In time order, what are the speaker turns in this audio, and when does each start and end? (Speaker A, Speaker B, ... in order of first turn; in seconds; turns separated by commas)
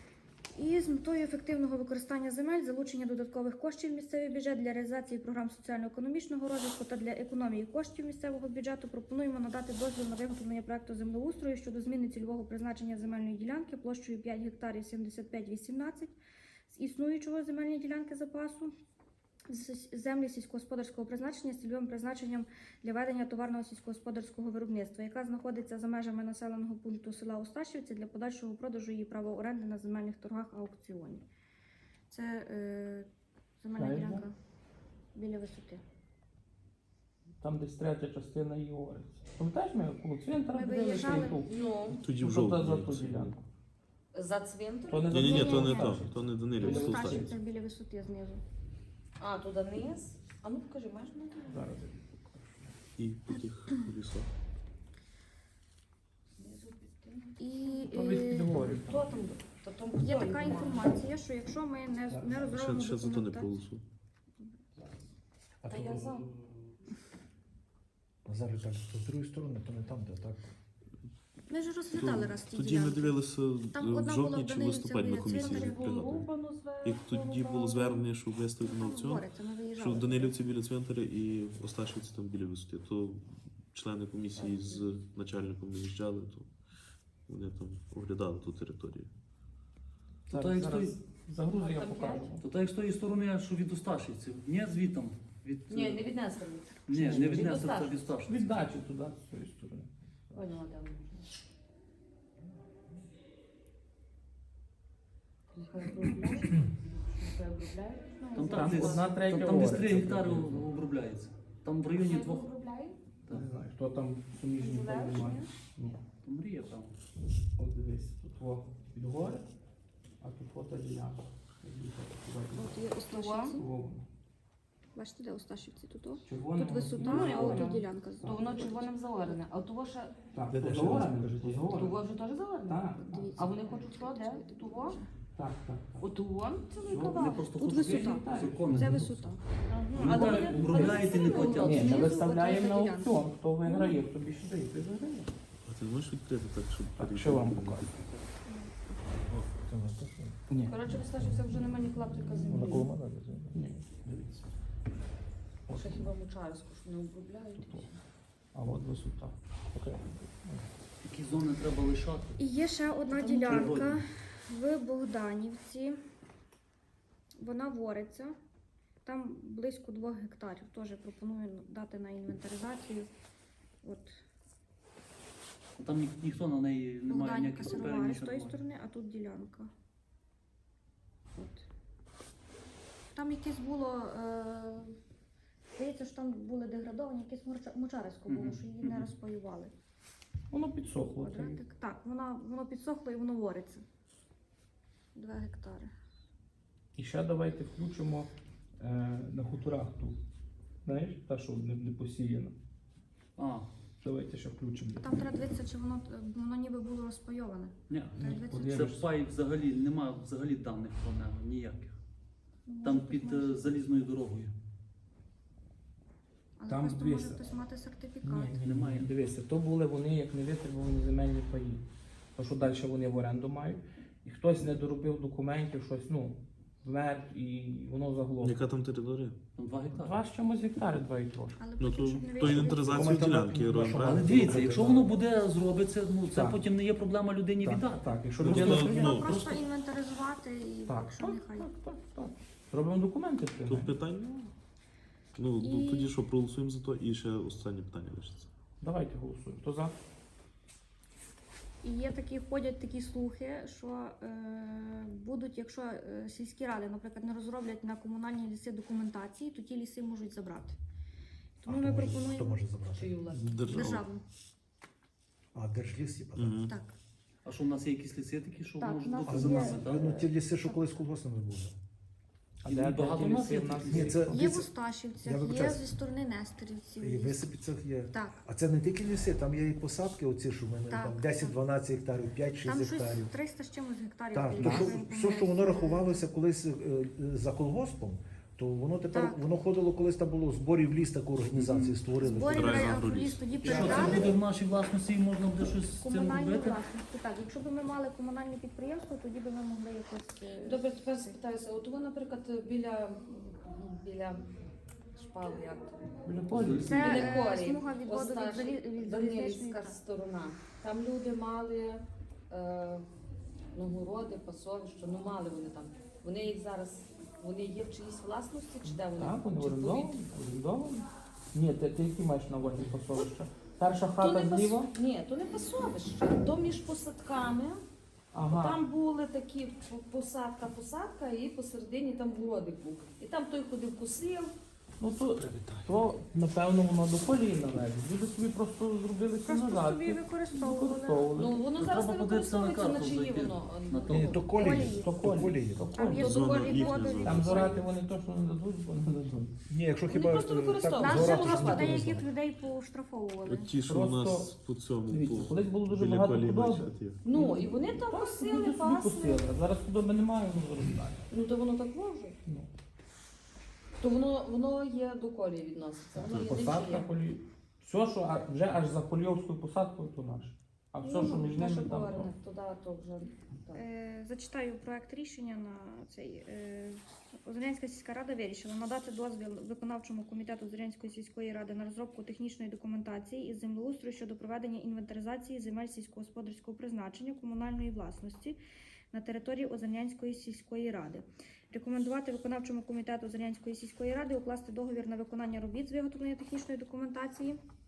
Speaker A: 0.6-16.1, Speaker A: 16.7-18.7, Speaker A: 19.5-31.2, Speaker A: 32.1-33.1, Speaker A: 33.6-34.3, Speaker B: 33.8-34.3, Speaker A: 35.1-35.8, Speaker B: 37.4-43.5, Speaker A: 40.5-41.5, Speaker C: 41.4-42.0, Speaker D: 41.9-43.3, Speaker C: 44.1-45.2, Speaker B: 44.9-47.3, Speaker D: 45.1-47.3, Speaker A: 45.3-45.9, Speaker A: 46.6-48.4, Speaker C: 49.2-51.6, Speaker B: 51.5-52.8, Speaker D: 53.0-54.3, Speaker C: 56.4-57.8, Speaker A: 57.4-58.6, Speaker B: 57.9-59.2, Speaker C: 58.7-61.0, Speaker A: 60.0-63.5, Speaker B: 62.1-62.5, Speaker D: 62.5-63.8, Speaker E: 65.6-66.5, Speaker C: 65.7-66.3, Speaker E: 68.3-70.5, Speaker A: 71.5-73.2, Speaker D: 72.0-76.3, Speaker A: 73.7-75.7, Speaker C: 75.3-77.9, Speaker D: 76.8-86.5, Speaker A: 77.4-78.0, Speaker A: 78.6-80.3, Speaker C: 84.3-84.9, Speaker D: 87.3-89.1, Speaker B: 90.3-92.5, Speaker F: 90.3-91.0, Speaker C: 91.5-92.3, Speaker F: 92.4-96.2, Speaker C: 95.7-98.1, Speaker F: 96.9-98.6, Speaker B: 96.9-97.5, Speaker B: 98.2-100.6, Speaker C: 100.3-101.3, Speaker C: 105.5-106.6, Speaker C: 107.2-109.1, Speaker F: 108.3-112.5, Speaker B: 108.5-110.7, Speaker C: 112.0-113.0, Speaker B: 113.3-116.0, Speaker C: 114.6-115.3, Speaker A: 115.2-115.5, Speaker F: 116.2-117.0, Speaker B: 117.6-119.5, Speaker B: 120.2-122.7, Speaker A: 122.5-123.6, Speaker C: 123.1-123.5, Speaker B: 123.5-124.1, Speaker A: 125.0-129.4, Speaker B: 126.2-128.4, Speaker C: 127.2-130.2, Speaker B: 130.3-132.0, Speaker D: 130.5-131.7, Speaker C: 131.8-132.8, Speaker B: 132.7-133.4, Speaker A: 132.9-135.1, Speaker C: 133.3-135.0, Speaker B: 135.3-136.1, Speaker C: 136.0-137.0, Speaker F: 136.8-139.3, Speaker B: 136.8-139.1, Speaker A: 136.9-139.4, Speaker C: 139.7-142.1, Speaker B: 139.9-145.3, Speaker F: 140.0-142.1, Speaker A: 141.7-143.1, Speaker D: 145.7-147.9, Speaker B: 147.0-147.9, Speaker A: 148.2-148.7, Speaker E: 149.5-150.4, Speaker B: 150.5-150.8, Speaker C: 150.7-152.9, Speaker E: 152.4-153.5, Speaker B: 153.5-154.5, Speaker B: 155.7-156.1, Speaker C: 155.7-158.0, Speaker B: 157.6-157.9, Speaker B: 158.5-160.7, Speaker F: 161.0-162.4, Speaker A: 162.4-166.0, Speaker C: 163.1-163.8, Speaker F: 163.5-164.0, Speaker A: 167.4-168.3, Speaker A: 169.1-173.1, Speaker A: 173.8-174.1, Speaker F: 175.8-178.6, Speaker A: 177.1-179.7, Speaker A: 181.4-181.7, Speaker A: 183.2-184.9, Speaker A: 185.8-189.7, Speaker F: 188.3-189.1, Speaker B: 190.5-191.6, Speaker A: 191.1-193.8, Speaker A: 195.2-195.9, Speaker B: 196.9-200.2, Speaker B: 200.8-202.6, Speaker F: 203.4-203.7, Speaker B: 204.0-205.1, Speaker A: 205.0-208.8, Speaker F: 207.9-208.2, Speaker B: 208.2-209.1, Speaker F: 208.7-212.0, Speaker A: 212.7-213.8, Speaker F: 212.8-214.5, Speaker A: 216.6-218.6, Speaker B: 216.7-217.4, Speaker B: 218.2-221.8, Speaker F: 218.6-219.1, Speaker B: 222.4-228.6, Speaker D: 228.4-229.4, Speaker F: 229.6-230.2, Speaker B: 229.9-231.6, Speaker A: 231.6-233.1, Speaker D: 231.8-234.3, Speaker E: 232.5-235.2, Speaker F: 234.0-238.2, Speaker B: 236.3-236.6, Speaker B: 237.6-239.6, Speaker D: 238.4-239.4, Speaker A: 238.5-241.7, Speaker B: 240.9-244.0, Speaker D: 243.7-244.5, Speaker D: 245.4-248.5, Speaker A: 245.6-246.1, Speaker B: 248.8-249.9, Speaker A: 251.8-260.8, Speaker A: 261.6-262.7, Speaker E: 261.7-263.1, Speaker C: 262.9-263.8, Speaker D: 263.3-264.1, Speaker A: 263.8-264.2, Speaker E: 265.5-266.6, Speaker D: 266.4-266.7, Speaker A: 266.7-266.9, Speaker F: 267.4-270.1, Speaker A: 268.8-270.8, Speaker E: 269.3-271.8, Speaker B: 272.6-274.2, Speaker F: 272.7-274.3, Speaker E: 273.9-274.7, Speaker A: 274.3-277.4, Speaker E: 275.2-275.9, Speaker E: 277.0-283.3, Speaker A: 278.1-278.4, Speaker A: 280.9-281.6, Speaker A: 282.6-286.2, Speaker E: 284.3-293.0, Speaker B: 284.6-284.9, Speaker A: 289.1-289.4, Speaker F: 291.6-292.8, Speaker A: 292.2-294.3, Speaker D: 292.4-293.7, Speaker F: 293.6-296.8, Speaker E: 293.6-294.4, Speaker A: 296.0-301.4, Speaker C: 300.6-304.4, Speaker C: 305.1-306.0, Speaker B: 306.2-307.4, Speaker F: 306.5-307.4, Speaker A: 306.8-310.0, Speaker C: 307.0-313.1, Speaker C: 313.8-320.1, Speaker B: 318.9-324.9, Speaker C: 324.2-327.8, Speaker B: 328.3-328.9, Speaker C: 328.4-334.5, Speaker B: 335.0-341.6, Speaker E: 335.3-336.0, Speaker A: 339.4-341.3, Speaker C: 341.4-344.5, Speaker F: 341.7-344.4, Speaker E: 344.1-345.9, Speaker A: 344.6-345.1, Speaker B: 345.0-346.5, Speaker A: 345.9-347.8, Speaker D: 346.1-347.8, Speaker C: 346.2-347.0, Speaker B: 347.2-349.5, Speaker E: 349.7-352.3, Speaker C: 350.1-352.1, Speaker A: 351.0-353.7, Speaker D: 353.4-357.2, Speaker B: 353.9-354.6, Speaker B: 355.1-361.3, Speaker C: 357.2-359.4, Speaker C: 361.3-362.4, Speaker B: 362.4-362.7, Speaker C: 364.0-367.1, Speaker D: 366.2-366.5, Speaker B: 366.3-372.3, Speaker C: 371.0-373.8, Speaker A: 373.8-388.6, Speaker A: 389.1-397.6